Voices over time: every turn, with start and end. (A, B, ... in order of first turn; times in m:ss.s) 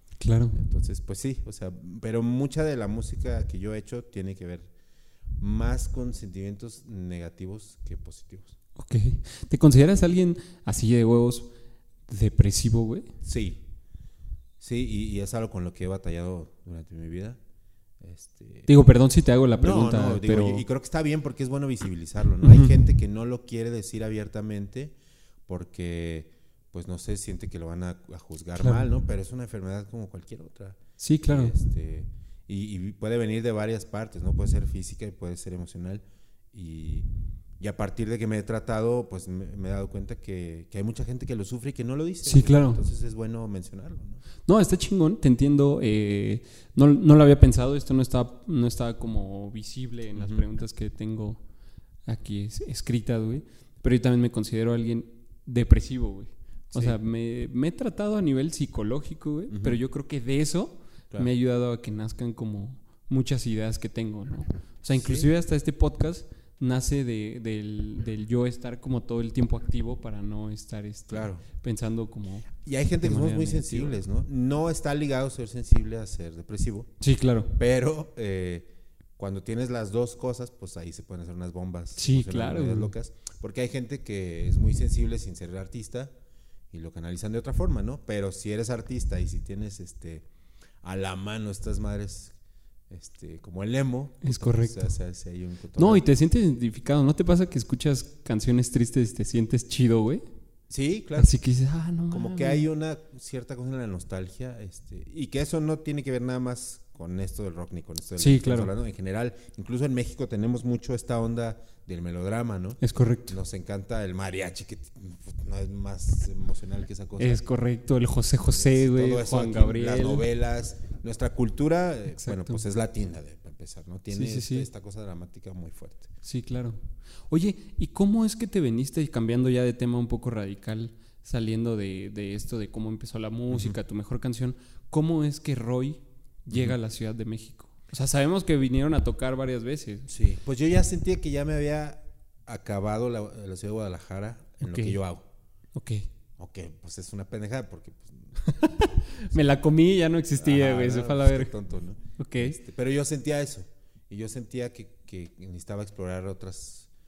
0:00.2-0:00.6 A
0:00.5-0:04.7 B
0:05.4-0:08.6 B
0:08.8-0:11.5 A
0:12.1-0:13.1 A
0:13.2-0:13.6 B
0:14.6-0:17.4 B
0:18.0-0:18.7 B
0:18.7-0:20.6 A
0:19.6-0:24.9 B
0:22.4-0:22.7 A
0:25.4-0:37.0 B
0:28.6-0:28.9 A
0:31.0-0:31.5 A
0:37.6-0:44.2 B
0:42.2-0:42.8 A
0:44.5-0:51.4 A
0:50.2-0:50.4 B
0:52.0-1:14.0 A
0:59.5-0:59.8 B
1:04.9-1:05.3 B
1:11.1-1:11.4 B
1:12.6-1:16.9 B
1:17.0-1:17.5 A
1:17.5-1:26.1 B
1:22.0-1:22.9 A
1:26.7-1:30.2 B
1:30.8-1:32.3 B
1:32.9-1:36.0 B
1:34.2-1:34.9 A
1:35.8-1:40.2 A
1:40.7-1:41.3 B
1:41.2-1:42.7 A
1:42.1-1:57.4 B
1:48.2-1:48.7 A
1:52.8-1:53.4 A
1:57.2-2:00.2 A
1:58.5-2:06.1 B
2:02.1-2:02.6 A
2:04.1-2:04.7 A
2:06.2-2:20.1 A
2:13.5-2:13.8 B
2:20.1-2:25.2 B
2:24.6-2:25.0 A
2:25.7-2:26.1 A
2:26.4-2:28.6 B
2:28.4-2:31.5 A
2:30.4-2:36.9 B
2:32.2-2:32.6 A